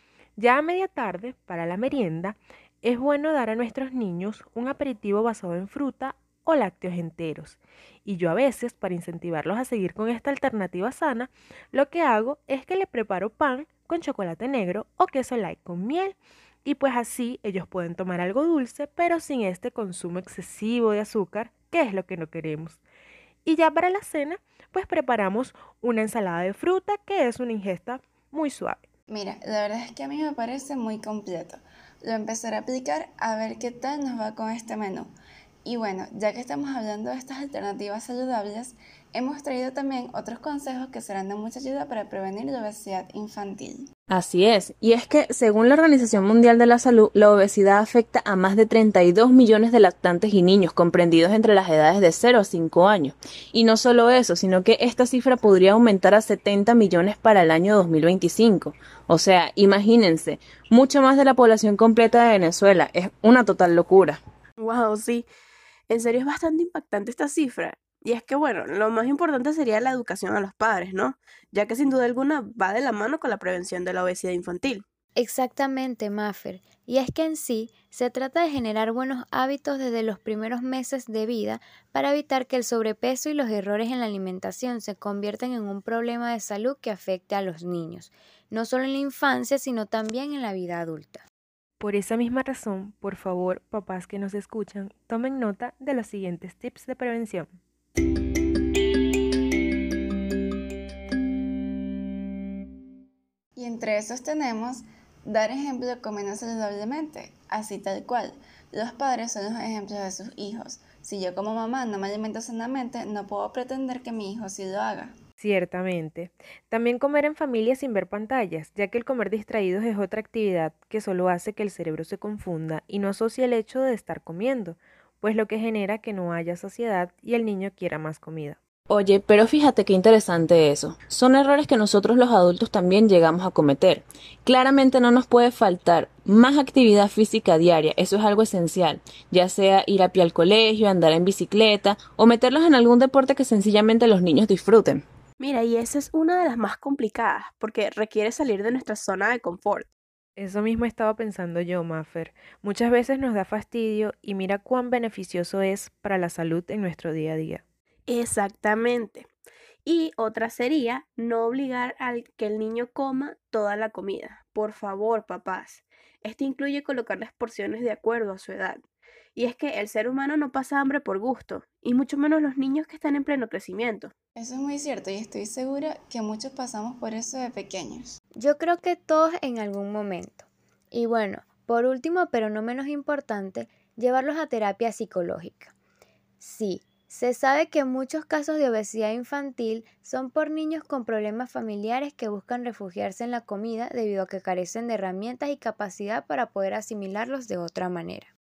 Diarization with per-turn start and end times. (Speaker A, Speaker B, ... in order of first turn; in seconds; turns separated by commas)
Speaker A: 0.4-22.8, Speaker A: 23.4-28.8, Speaker B: 29.1-35.1, Speaker B: 35.7-43.9, Speaker C: 44.1-64.2, Speaker D: 64.6-65.3, Speaker D: 65.9-74.8, Speaker E: 75.2-91.2, Speaker A: 91.8-97.6, Speaker B: 103.6-115.1, Speaker A: 115.4-128.6, Speaker C: 128.9-145.0, Speaker D: 145.4-149.9, Speaker A: 150.4-157.6, Speaker D: 158.1-159.3, Speaker D: 159.9-168.8, Speaker D: 169.4-174.1, Speaker B: 174.4-178.1, Speaker E: 178.4-185.7, Speaker E: 186.4-198.3